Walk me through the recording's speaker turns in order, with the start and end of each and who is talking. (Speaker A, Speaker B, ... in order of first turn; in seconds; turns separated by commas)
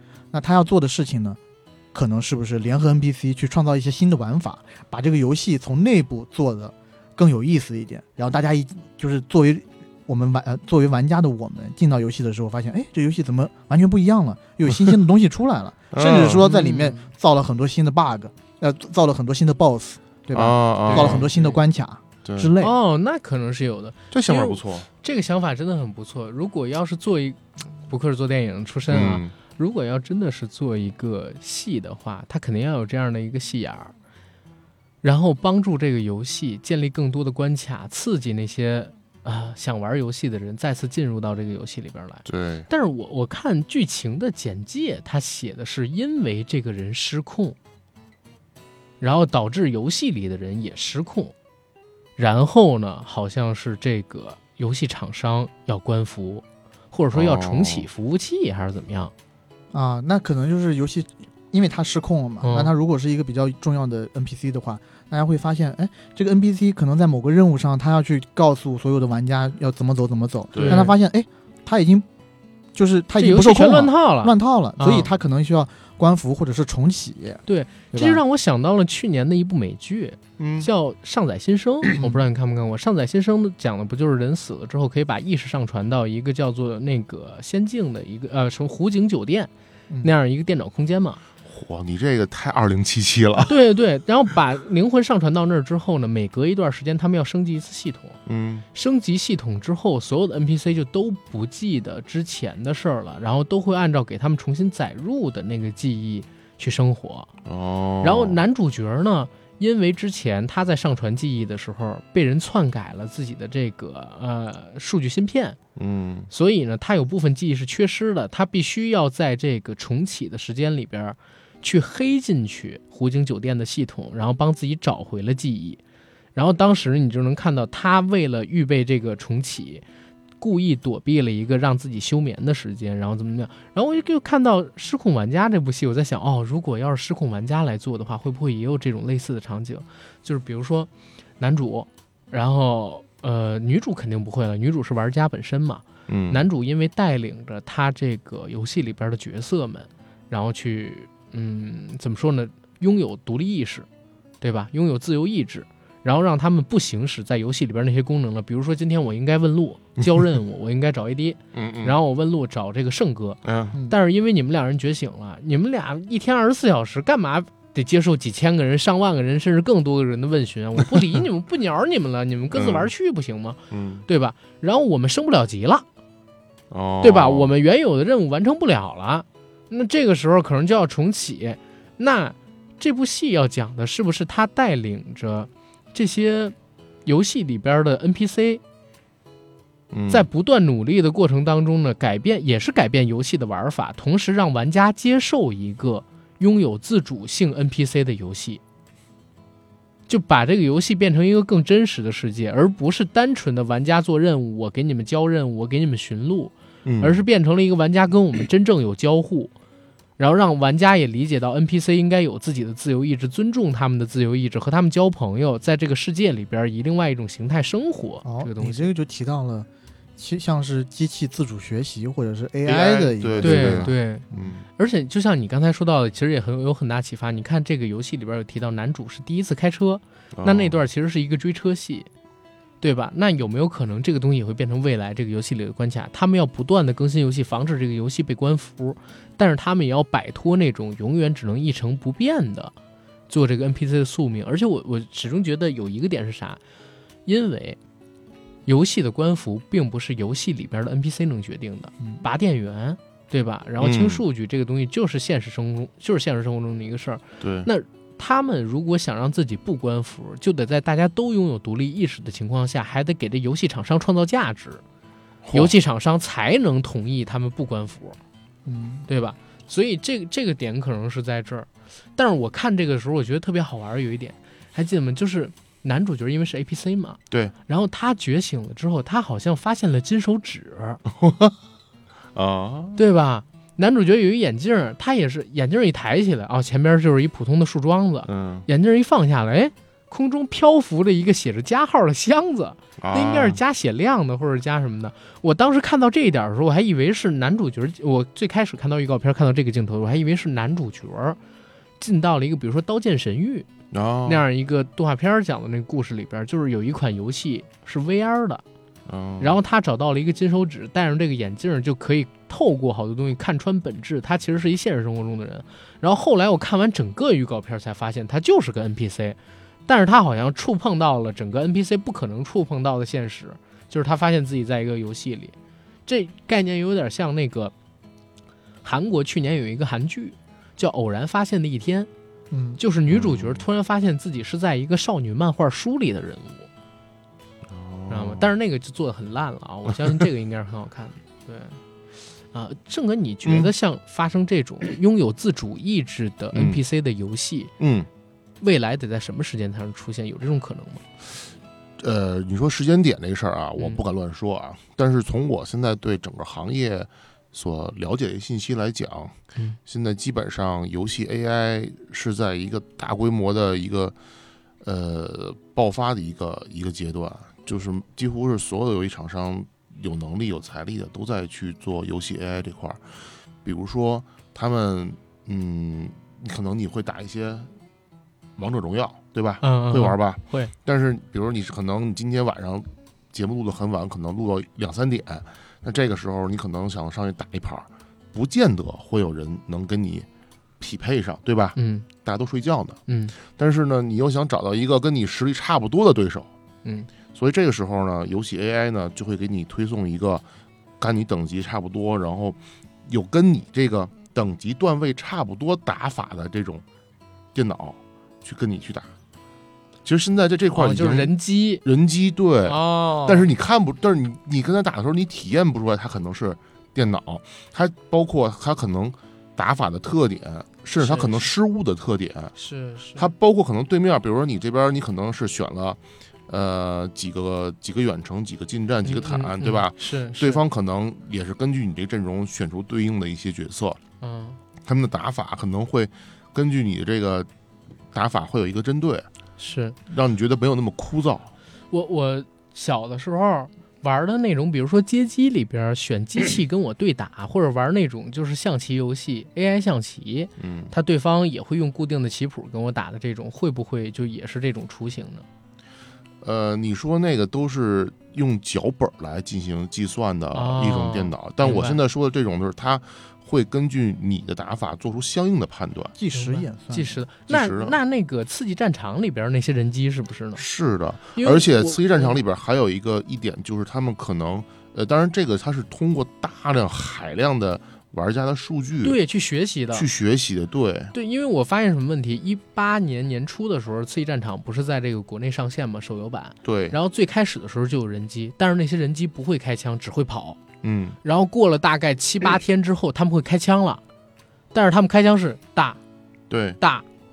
Speaker A: 0.3-1.4, Speaker A: 1.9-22.8, Speaker B: 15.9-16.4, Speaker C: 16.4-17.1, Speaker B: 20.3-21.3, Speaker C: 20.9-21.6, Speaker B: 22.2-22.5, Speaker C: 22.6-33.9, Speaker B: 24.1-24.9, Speaker B: 28.9-29.3, Speaker C: 35.0-47.6, Speaker B: 42.3-42.7, Speaker C: 49.0-51.3, Speaker C: 52.2-59.1, Speaker B: 57.1-57.9, Speaker A: 59.7-72.1, Speaker C: 62.4-62.7, Speaker B: 70.5-70.9, Speaker C: 70.6-71.0, Speaker A: 72.7-78.2, Speaker C: 73.2-75.1, Speaker C: 77.5-89.5, Speaker B: 80.4-80.7, Speaker C: 90.0-91.2, Speaker B: 91.5-93.5, Speaker C: 93.5-98.2, Speaker B: 98.3-98.7, Speaker C: 98.7-107.3, Speaker B: 107.5-108.4, Speaker C: 108.0-115.6, Speaker B: 115.8-116.3, Speaker C: 116.3-125.8, Speaker C: 126.3-129.8, Speaker C: 130.4-153.9, Speaker B: 146.1-146.5, Speaker C: 154.4-175.8, Speaker B: 161.5-162.0, Speaker B: 163.4-163.8, Speaker B: 172.5-172.9, Speaker B: 173.7-174.1, Speaker B: 176.7-177.5, Speaker C: 177.0-188.6, Speaker B: 189.9-190.3, Speaker C: 190.1-198.6, Speaker C: 200.1-209.5, Speaker B: 206.8-207.2, Speaker C: 210.2-218.9, Speaker A: 218.2-223.9, Speaker B: 222.7-224.7, Speaker C: 223.4-232.1, Speaker B: 230.3-230.8, Speaker C: 232.8-242.7, Speaker C: 243.3-246.6, Speaker C: 247.3-247.8, Speaker C: 248.7-264.8, Speaker B: 253.8-254.2, Speaker B: 257.4-257.7, Speaker B: 265.4-265.7, Speaker C: 265.5-268.2, Speaker A: 268.6-269.1, Speaker C: 269.1-281.0, Speaker B: 281.1-281.6, Speaker B: 282.4-283.0, Speaker C: 283.0-301.4, Speaker B: 288.3-288.7, Speaker B: 293.0-293.6, Speaker C: 302.0-303.7, Speaker B: 303.9-304.4, Speaker C: 304.3-308.6, Speaker B: 309.1-309.6, Speaker C: 309.4-325.6, Speaker C: 326.1-327.7, Speaker C: 328.8-332.1, Speaker A: 332.5-332.8, Speaker C: 332.8-336.7, Speaker B: 333.1-333.6, Speaker B: 337.7-338.5, Speaker C: 338.1-341.8, Speaker C: 342.5-347.7, Speaker B: 343.4-343.7, Speaker B: 346.5-346.8, Speaker B: 347.8-348.1, Speaker C: 348.6-351.1, Speaker B: 352.0-359.4, Speaker B: 359.9-364.1, Speaker B: 364.8-377.7, Speaker B: 378.6-390.3, Speaker C: 379.6-380.7, Speaker B: 390.8-396.5, Speaker C: 391.8-392.1, Speaker C: 393.1-393.4, Speaker C: 396.8-397.1, Speaker B: 397.3-400.4, Speaker B: 401.0-406.8, Speaker B: 407.5-409.1, Speaker B: 410.1-411.3, Speaker C: 410.7-411.8, Speaker B: 411.8-422.5, Speaker C: 412.6-413.5, Speaker C: 421.0-421.5, Speaker C: 422.6-423.3, Speaker B: 423.2-434.0, Speaker C: 429.1-430.6, Speaker C: 434.2-434.6, Speaker B: 434.9-437.5, Speaker B: 438.1-439.3, Speaker C: 439.6-440.0, Speaker B: 440.1-441.5, Speaker C: 441.9-455.4, Speaker B: 450.6-450.9, Speaker B: 456.4-466.1, Speaker C: 460.5-462.0, Speaker A: 466.1-467.2, Speaker C: 466.3-470.6, Speaker B: 467.5-468.0, Speaker B: 470.6-479.2, Speaker C: 471.3-472.4, Speaker C: 479.0-480.1, Speaker B: 479.9-481.1, Speaker C: 481.1-490.6, Speaker B: 486.6-487.0, Speaker B: 490.8-491.2, Speaker C: 491.2-494.0, Speaker C: 494.7-496.0, Speaker B: 496.5-496.8, Speaker C: 496.8-497.1